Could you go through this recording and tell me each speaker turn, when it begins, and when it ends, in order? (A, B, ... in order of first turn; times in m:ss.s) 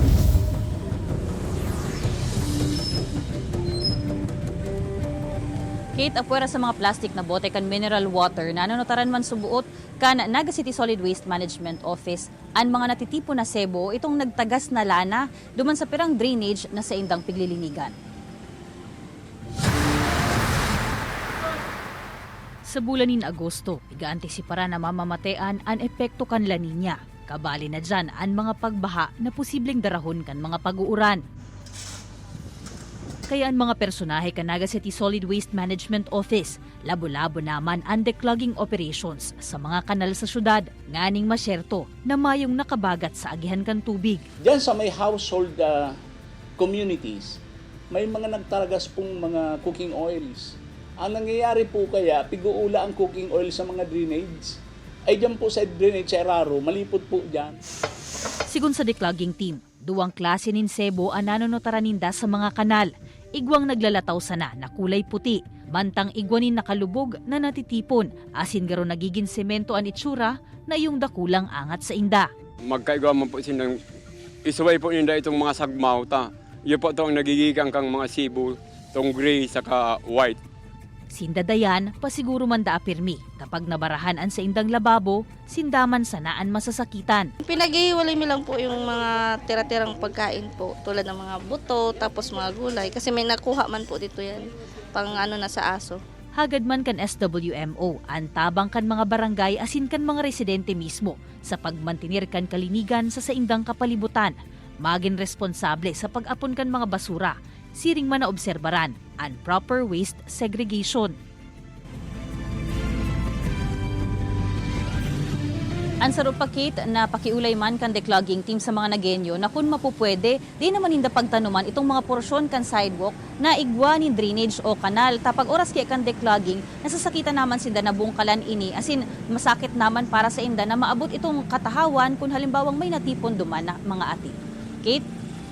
0:06.0-0:17.9 A
0:22.7-0:31.2 A
0:33.3-0:44.2 A
0:44.4-0:45.9 B
0:46.6-0:47.4 B
0:47.9-0:54.5 B
0:55.1-0:57.6 B
0:58.5-1:12.3 A
1:12.7-1:13.8 C
1:14.4-1:20.4 C
1:21.1-1:27.3 A
1:27.4-1:36.0 D
1:36.4-1:51.2 A
1:56.0-2:15.0 A